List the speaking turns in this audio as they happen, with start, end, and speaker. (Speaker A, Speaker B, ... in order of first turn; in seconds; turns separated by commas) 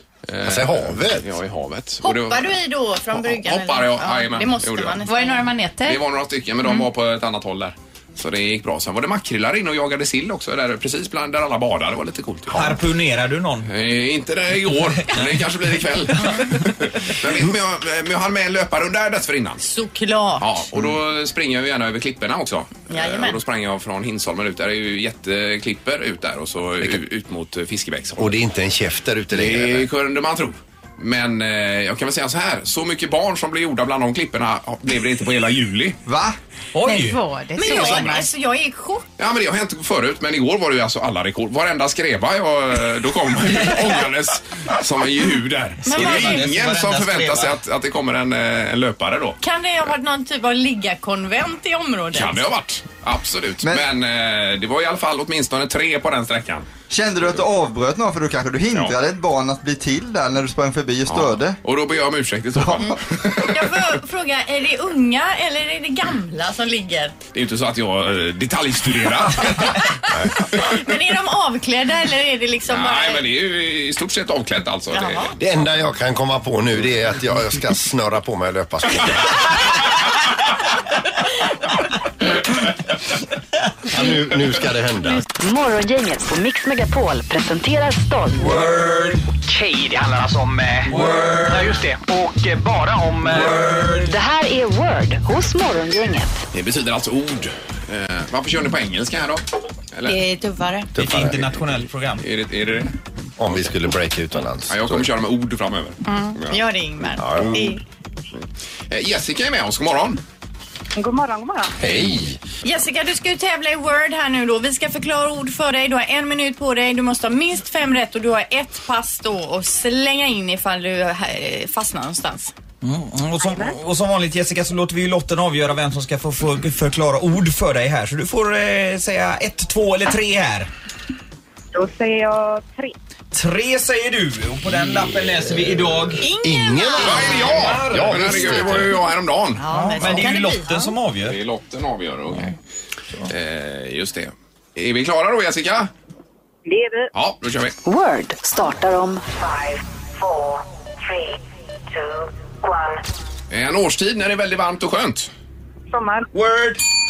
Speaker A: 0.3-2.6, Speaker B: 0.4-1.3, Speaker C: 2.0-5.5, Speaker A: 3.1-5.0, Speaker D: 5.1-6.0, Speaker A: 5.8-12.8, Speaker E: 12.5-13.7, Speaker A: 13.6-19.6, Speaker E: 16.1-16.4, Speaker C: 19.6-20.6, Speaker A: 20.4-28.4, Speaker C: 22.9-23.4, Speaker B: 28.2-29.9, Speaker A: 29.3-36.0, Speaker F: 36.1-36.4, Speaker E: 36.7-37.2, Speaker D: 36.9-38.3, Speaker C: 37.0-39.0, Speaker A: 39.2-49.4, Speaker C: 45.9-46.5, Speaker E: 45.9-47.6, Speaker C: 49.4-52.5, Speaker A: 52.1-56.7, Speaker F: 56.9-61.6, Speaker A: 61.1-63.7, Speaker C: 63.4-67.2, Speaker A: 67.3-70.8, Speaker C: 70.6-73.2, Speaker A: 72.7-75.3, Speaker C: 74.9-75.4, Speaker B: 75.4-79.6, Speaker B: 83.9-85.3, Speaker G: 85.3-88.5, Speaker E: 88.4-89.3, Speaker H: 89.5-90.9, Speaker E: 90.9-91.7, Speaker H: 91.6-93.5, Speaker E: 93.2-94.2, Speaker G: 94.1-96.3, Speaker A: 96.5-100.2, Speaker C: 100.1-100.9, Speaker E: 101.0-102.2, Speaker B: 101.0-101.3, Speaker A: 102.2-103.0, Speaker B: 103.4-105.1, Speaker A: 104.7-106.6, Speaker C: 106.1-107.8, Speaker B: 107.2-107.7, Speaker A: 108.9-110.2, Speaker I: 111.0-111.8, Speaker B: 111.8-112.4, Speaker A: 111.8-112.2, Speaker C: 112.6-122.5, Speaker E: 122.8-130.7, Speaker I: 131.7-132.9, Speaker E: 133.3-136.3, Speaker C: 136.2-137.6, Speaker B: 136.4-138.9, Speaker A: 137.0-139.7, Speaker E: 137.5-138.8, Speaker C: 138.4-138.9, Speaker C: 139.6-140.7, Speaker E: 139.7-141.4, Speaker A: 141.2-142.6, Speaker A: 143.3-145.9, Speaker I: 146.7-147.1, Speaker A: 147.1-147.8, Speaker G: 147.8-149.2, Speaker A: 153.5-155.3, Speaker I: 155.9-156.3, Speaker E: 156.3-156.8